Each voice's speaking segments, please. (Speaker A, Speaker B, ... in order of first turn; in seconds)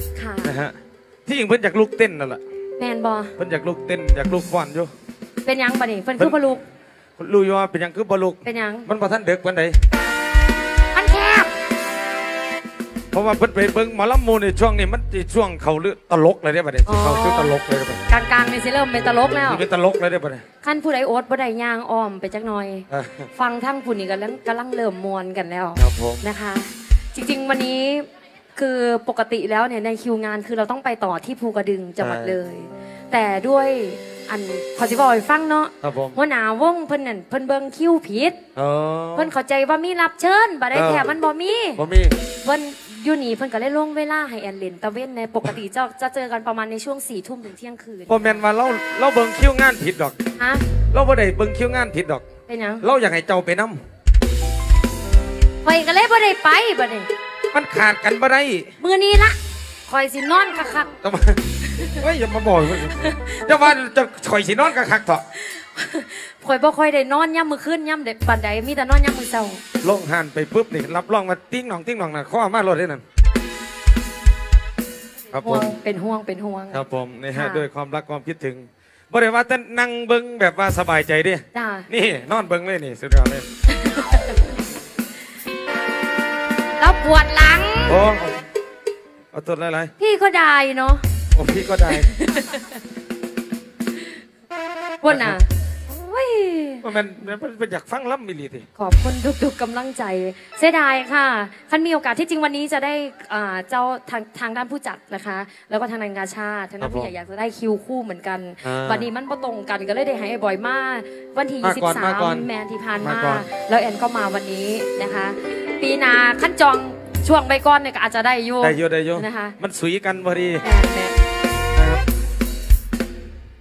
Speaker A: 0.1-0.5, 2.8-3.3, 5.4-6.6, 8.4-8.9, 10.9-11.5, 16.9-17.5, 18.1-19.6, 20.6-38.4, 39.1-41.8, 42.4-48.4, 50.4-50.7, 52.5-52.8, 55.6-57.1, 58.8-60.9, 61.7-62.0, 62.8-63.4, 65.3-69.6, 75.3-76.8, 77.3-77.7, 81.5-81.9, 83.7-84.4, 86.8-88.0, 90.0-91.0, 91.9-92.8, 95.0-96.8, 98.8-119.6, 120.6-121.2
Speaker B: 0.4-2.4, 3.4-4.9, 7.2-9.8, 13.1-18.1, 19.4-20.4, 22.9-23.3, 25.8-26.2, 32.0-32.4, 35.8-36.2, 38.5-39.3, 40.7-41.1, 41.8-42.1, 48.1-50.1, 50.9-52.2, 52.8-53.8, 57.5-58.7, 61.0-61.4, 61.9-65.2, 69.8-73.0, 75.3-75.7, 76.7-83.5, 87.9-88.4, 89.3-89.9, 91.3-92.1, 95.1-95.4, 96.8-98.7, 106.8-107.1, 108.6-109.1, 111.6-112.5, 113.0-113.5, 118.6-120.6, 121.7-122.0